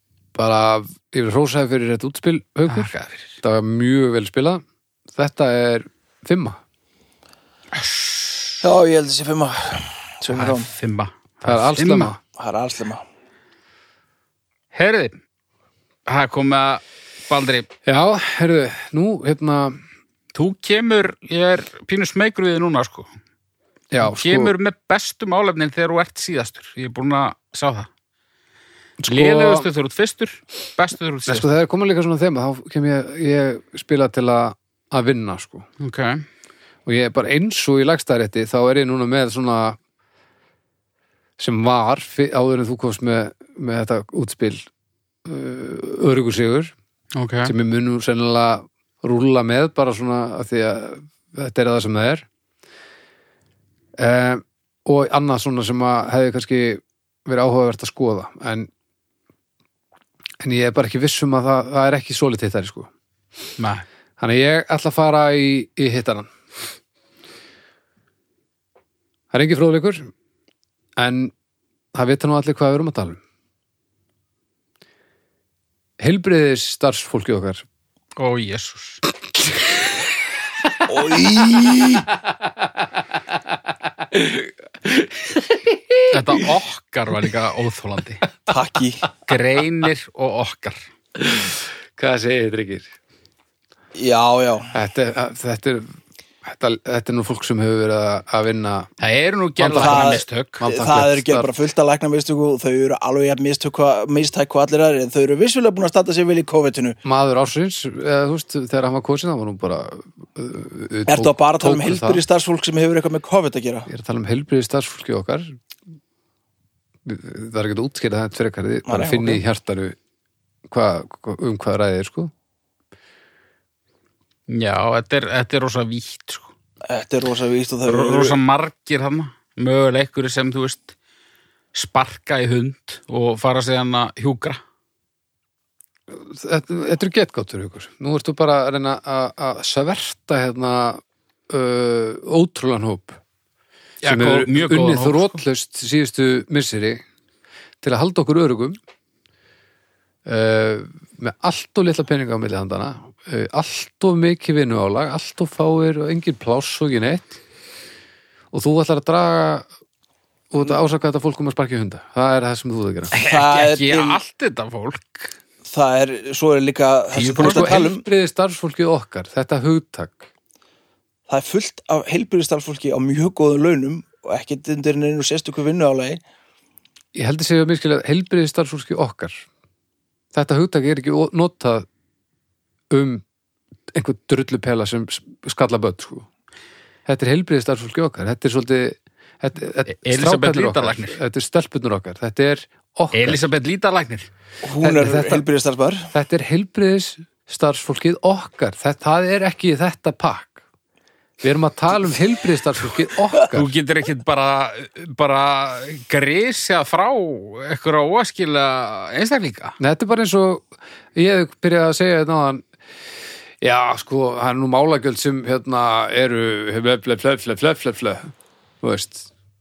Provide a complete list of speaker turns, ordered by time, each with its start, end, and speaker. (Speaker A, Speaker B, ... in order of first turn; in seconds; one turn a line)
Speaker A: 0.3-6.6
Speaker B: 2.7-3.4
Speaker B: 7.7-8.6
Speaker C: 8.6-10.7
Speaker B: 10.3-12.1
Speaker A: 11.4-12.2
Speaker C: 12.4-13.0
Speaker B: 14.7-15.2
Speaker B: 16.1-17.7
Speaker A: 17.9-19.8
Speaker B: 20.3-23.1
Speaker A: 23.9-24.5
Speaker B: 24.0-27.9
Speaker A: 29.0-29.7
Speaker B: 29.1-31.5
Speaker A: 31.3-35.6
Speaker B: 35.8-36.2
Speaker A: 36.9-39.8
Speaker A: 41.4-44.7
Speaker A: 45.2-46.7
Speaker B: 47.1-47.5
Speaker A: 47.4-52.3
Speaker A: 54.0-58.7
Speaker A: 60.4-62.9
Speaker B: 63.6-63.8
Speaker A: 64.2-66.3
Speaker A: 69.3-70.1
Speaker A: 71.0-71.3
Speaker A: 71.9-73.2
Speaker A: 76.0-77.6
Speaker B: 78.2-79.0
Speaker C: 80.9-82.1
Speaker A: 82.2-82.8
Speaker A: 83.5-86.5
Speaker B: 86.1-88.2
Speaker C: 88.5-89.1
Speaker B: 89.2-90.8
Speaker A: 91.2-92.9
Speaker C: 94.0-94.7
Speaker A: 94.7-95.9
Speaker A: 96.4-98.9
Speaker B: 99.0-100.6
Speaker A: 99.6-101.5
Speaker C: 99.8-107.0
Speaker A: 107.0-112.2
Speaker C: 111.1-113.9
Speaker A: 113.9-115.6
Speaker A: 117.0-120.0
Speaker C: 118.8-119.4
Speaker A: 120.7-122.3
Speaker B: 124.5-126.5
Speaker C: 126.9-128.4
Speaker B: 127.9-130.9
Speaker B: 131.7-134.6
Speaker A: 136.1-143.2
Speaker B: 144.0-145.4
Speaker A: 144.0-147.0
Speaker A: 147.8-148.8
Speaker A: 150.2-157.4
Speaker A: 158.5-159.7
Speaker A: 160.5-163.1
Speaker C: 163.1-164.2
Speaker B: 163.1-165.3
Speaker C: 165.6-168.0
Speaker B: 167.1-167.9
Speaker A: 167.4-170.3
Speaker C: 171.3-176.2
Speaker A: 177.1-179.4
Speaker A: 180.3-181.8
Speaker A: 182.9-183.2
Speaker A: 183.9-186.3
Speaker A: 187.1-193.4
Speaker B: 189.9-191.2
Speaker B: 193.1-194.3
Speaker C: 194.6-196.1
Speaker A: 194.8-195.4
Speaker A: 196.1-200.6
Speaker A: 201.4-203.7
Speaker B: 203.5-209.8
Speaker A: 209.8-212.6
Speaker A: 213.6-218.3
Speaker A: 218.8-219.3